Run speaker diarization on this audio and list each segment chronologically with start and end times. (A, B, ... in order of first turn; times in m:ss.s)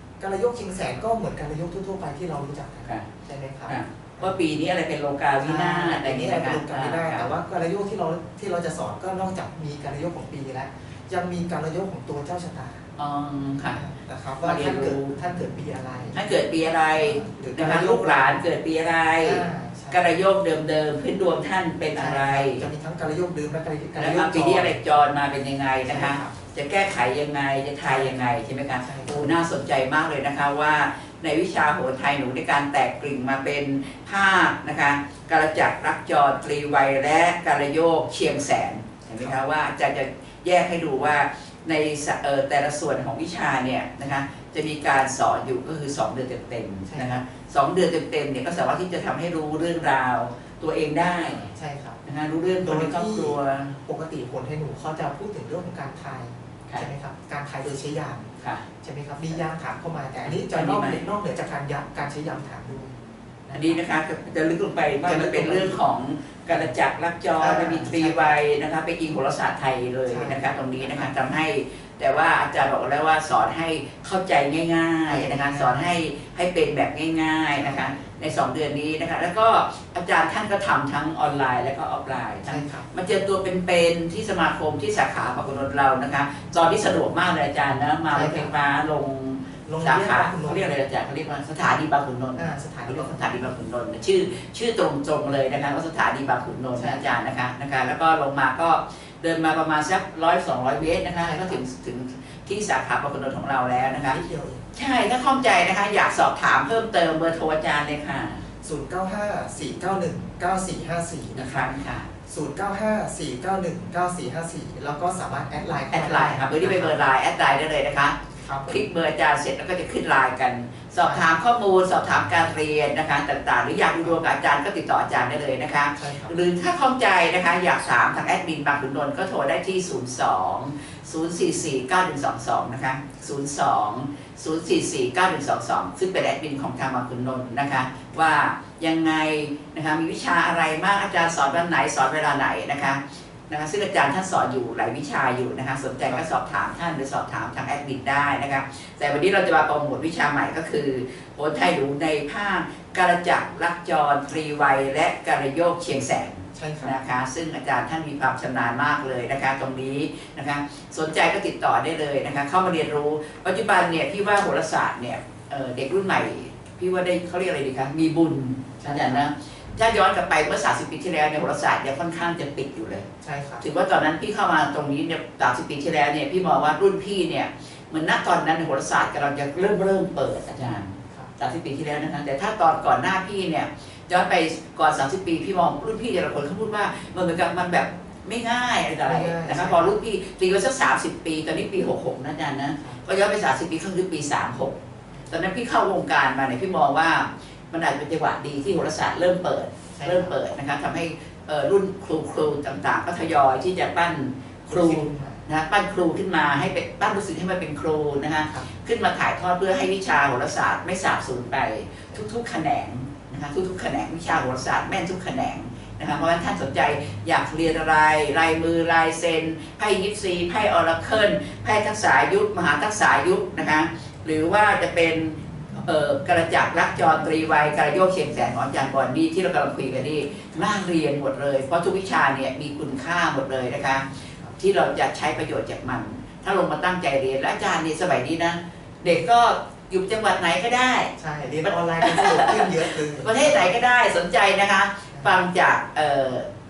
0:00.2-0:04.4 A
0:03.7-0:07.3 B
0:05.4-0:12.8 A
0:13.0-0:13.8 B
0:13.7-0:16.3 A
0:14.4-0:15.2 B
0:16.1-0:22.7 B
0:16.9-0:18.4 A
0:19.2-0:20.1 A
0:22.0-0:24.8 A
0:24.0-0:51.5 B
0:25.9-0:26.4 A
0:27.8-0:28.3 A
0:28.8-0:29.3 A
0:46.9-0:47.2 A
0:51.2-0:52.0 A
0:52.0-0:53.8 B
0:52.6-0:58.3 A
0:58.4-0:58.7 B
0:58.8-1:02.9 A
1:00.2-1:01.0 B
1:03.4-1:03.8 A
1:03.5-1:44.2 B
1:05.0-1:05.8 A
1:07.4-1:08.4 A
1:10.1-1:11.1 A
1:15.1-1:15.9 A
1:17.6-1:18.0 A
1:22.4-1:22.9 A
1:28.1-1:28.5 A
1:29.7-1:30.8 A
1:32.4-1:33.4 A
1:36.8-1:37.2 A
1:41.2-1:41.6 A
1:43.8-1:44.6 A
1:44.7-1:48.4 B
1:48.6-1:51.8 A
1:51.4-1:52.1 B
1:52.3-1:57.0 A
1:55.9-2:53.1 B
1:58.4-1:58.9 A
2:01.0-2:01.3 A
2:05.9-2:06.4 A
2:36.6-2:37.0 A
2:48.8-2:49.2 A
2:53.2-2:53.7 A
2:53.6-3:14.8 B
3:09.0-3:09.9 A
3:15.3-4:01.1 B
3:19.9-3:20.4 A
3:24.7-3:25.4 A
4:01.2-4:03.8 A
4:01.6-4:06.5 B
4:05.1-4:05.4 A